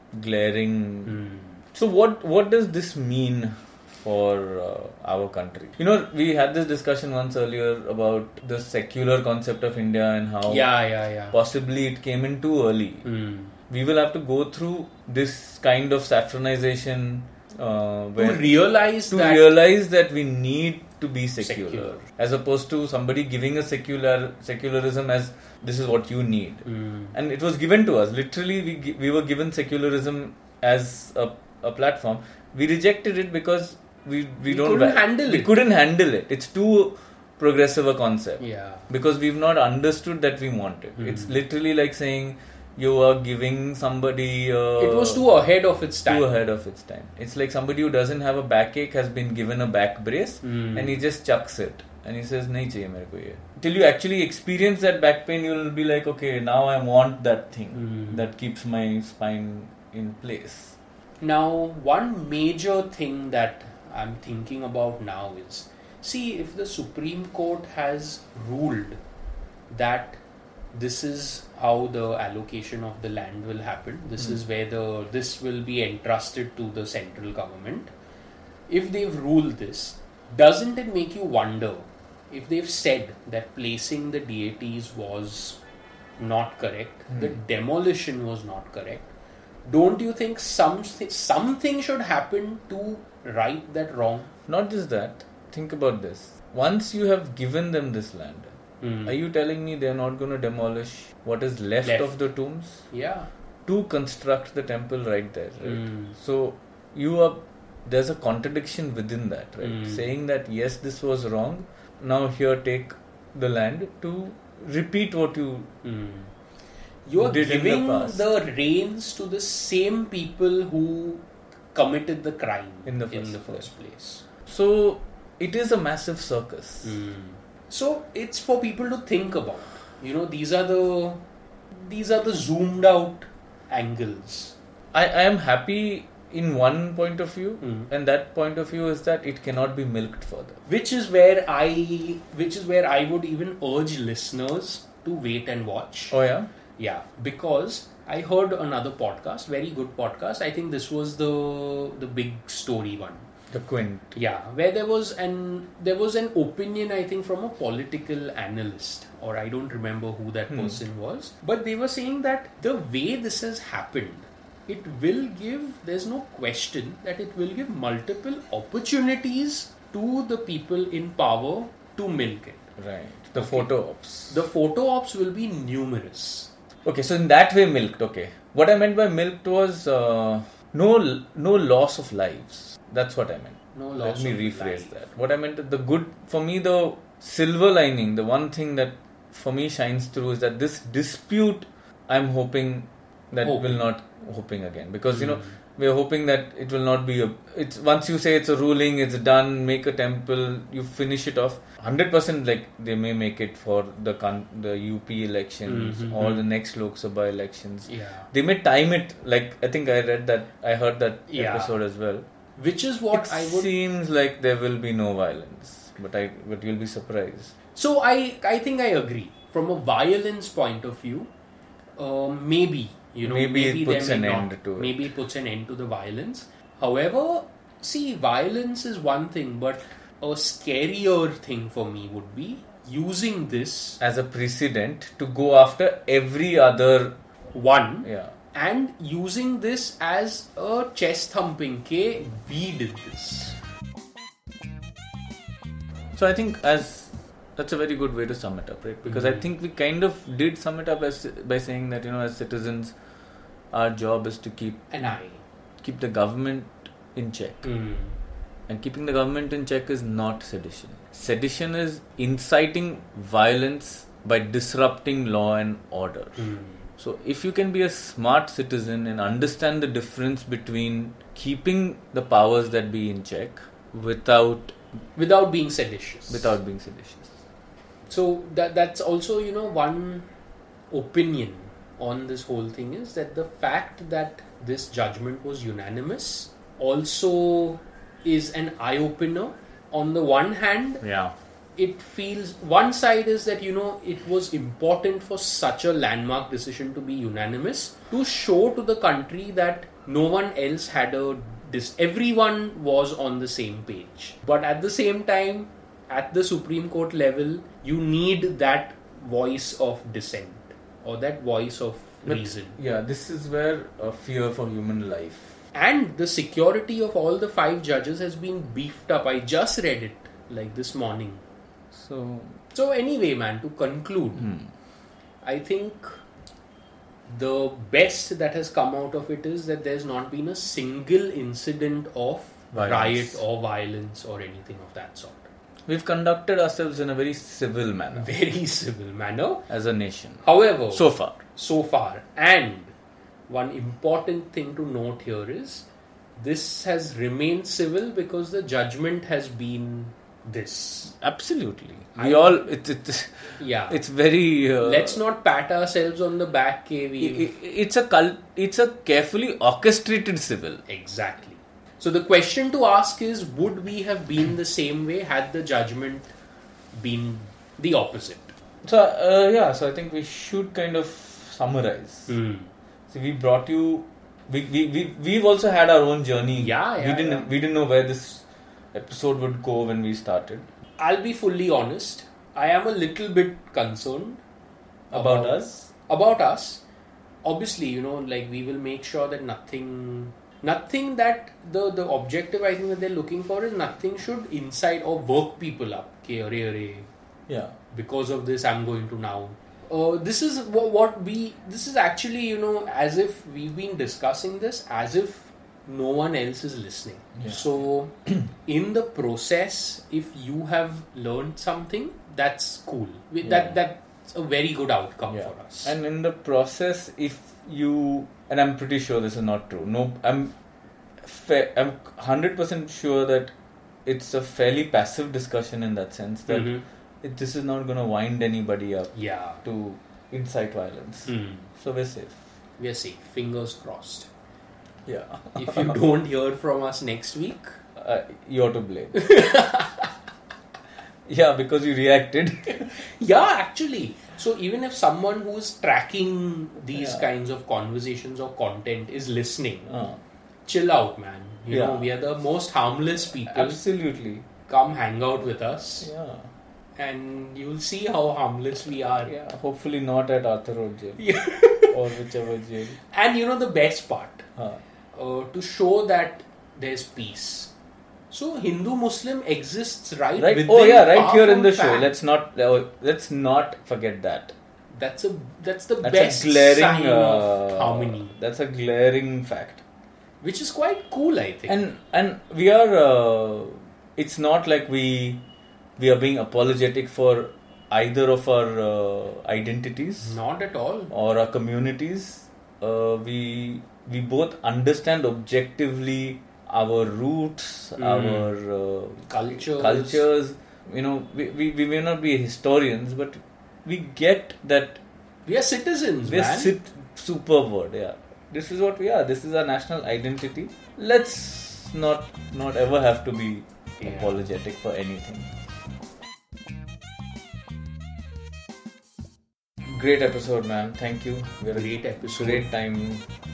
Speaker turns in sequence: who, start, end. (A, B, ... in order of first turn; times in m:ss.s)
0:00.1-0:01.2 A
0:01.1-0:01.6 B
0:01.7-0:10.7 A
0:10.4-0:11.4 B
0:11.3-0:13.1 A
0:13.0-0:13.6 B
0:13.7-0:18.6 A
0:18.2-0:19.5 B
0:19.1-0:45.2 A
0:21.4-0:22.0 B
0:26.7-0:27.2 B
0:34.5-0:35.6 B
0:38.4-0:38.8 B
0:41.0-0:41.4 B
0:44.8-0:46.3 B
0:46.1-1:00.8 A
0:50.4-0:51.0 B
0:57.8-0:58.2 B
1:01.2-1:09.0 B
1:09.7-1:10.2 B
1:10.7-1:17.9 B
1:18.7-1:25.6 B
1:26.2-1:29.1 B
1:29.7-1:34.3 B
1:34.5-1:42.8 A
1:38.8-1:39.2 B
1:41.8-1:42.2 B
1:42.9-1:43.3 B
1:43.7-1:55.7 A
1:45.6-1:46.2 B
1:49.6-1:50.0 B
1:55.8-1:56.3 B
1:57.1-2:04.2 B
1:57.2-1:58.3 A
2:02.8-2:03.7 A
2:04.5-2:06.9 A
2:06.8-2:14.6 B
2:14.9-2:20.6 A
2:17.6-2:17.9 B
2:20.7-2:26.2 B
2:26.1-2:26.5 A
2:26.8-2:33.3 B
2:33.5-2:34.2 A
2:34.2-2:52.7 B
2:40.5-2:40.8 A
2:52.8-2:54.4 A
2:53.4-2:53.7 B
2:54.3-2:56.5 B
2:56.8-3:32.3 A
3:03.8-3:05.0 B
3:13.4-3:13.8 B
3:15.1-3:15.6 B
3:25.7-3:26.4 B
3:27.9-3:28.3 B
3:31.3-3:31.8 B
3:32.6-3:33.7 B
3:33.1-3:37.5 A
3:37.8-3:41.3 B
3:42.0-3:54.0 B
3:43.2-3:45.1 A
3:54.0-3:57.2 A
3:57.5-4:03.6 B
3:58.0-3:58.3 A
4:06.1-4:13.0 A
4:09.0-4:09.5 B
4:13.7-4:14.9 A
4:14.9-4:15.4 B
4:15.8-4:17.7 A
4:17.6-4:18.2 B
4:18.7-4:26.4 A
4:26.4-4:26.9 B
4:27.0-4:34.8 A
4:35.2-4:36.5 B
4:36.3-4:37.4 A
4:38.1-4:40.3 B
4:40.9-4:51.0 B
4:51.0-4:51.3 A
4:51.8-5:12.8 B
5:12.3-5:15.6 A
5:15.7-5:21.4 B
5:21.9-5:22.6 A
5:22.7-5:24.5 B
5:24.4-5:24.7 A
5:25.4-5:26.2 B
5:27.3-5:35.5 B
5:32.7-5:33.4 A
5:35.9-5:38.4 A
5:38.1-5:39.7 B
5:39.7-5:41.4 A
5:40.4-5:42.9 B
5:43.5-5:51.1 B
5:51.0-5:55.2 A
5:52.2-5:52.7 B
5:53.6-5:54.0 B
5:54.8-5:57.5 B
5:57.2-6:00.8 A
6:00.9-6:06.3 B
6:06.9-6:08.5 B
6:08.8-6:12.4 A
6:12.3-6:12.7 B
6:13.1-6:20.7 A
6:16.6-6:17.5 B
6:21.0-6:24.4 B
6:25.1-6:25.9 A
6:25.1-6:26.8 B
6:27.4-6:37.1 B
6:37.5-6:37.8 A
6:37.9-6:56.0 B
6:53.4-6:53.8 A
6:55.3-7:00.6 A
7:01.2-7:03.5 A
7:04.0-7:12.4 A
7:06.5-7:06.8 B
7:09.1-7:09.6 B
7:11.3-7:11.7 B
7:12.8-7:14.3 B
7:15.1-7:16.0 A
7:15.6-7:17.8 B
7:18.0-7:19.4 A
7:19.2-7:20.0 B
7:21.3-7:23.0 A
7:22.8-7:29.9 B
7:26.9-7:27.2 A
7:29.9-7:30.2 A
7:30.7-7:33.8 B
7:31.7-7:32.1 A
7:33.5-7:34.5 A
7:34.7-7:36.1 B
7:36.0-7:36.5 A
7:37.0-7:39.3 B
7:39.2-7:43.0 A
7:41.2-7:42.0 B
7:43.0-7:44.5 B
7:44.6-7:44.8 A
7:45.1-7:47.7 B
7:48.3-7:52.1 B
7:50.4-7:54.5 A
7:54.9-7:58.3 B
7:56.0-7:59.8 A
8:00.4-8:01.8 B
8:01.7-8:05.4 A
8:06.0-8:10.4 A
8:10.2-8:11.1 B
8:11.1-8:25.0 A
8:18.0-8:18.5 B
8:19.3-8:20.2 B
8:25.5-8:26.7 B
8:26.2-8:35.5 A
8:34.0-8:34.3 B
8:39.9-8:43.2 A
8:41.7-8:42.7 B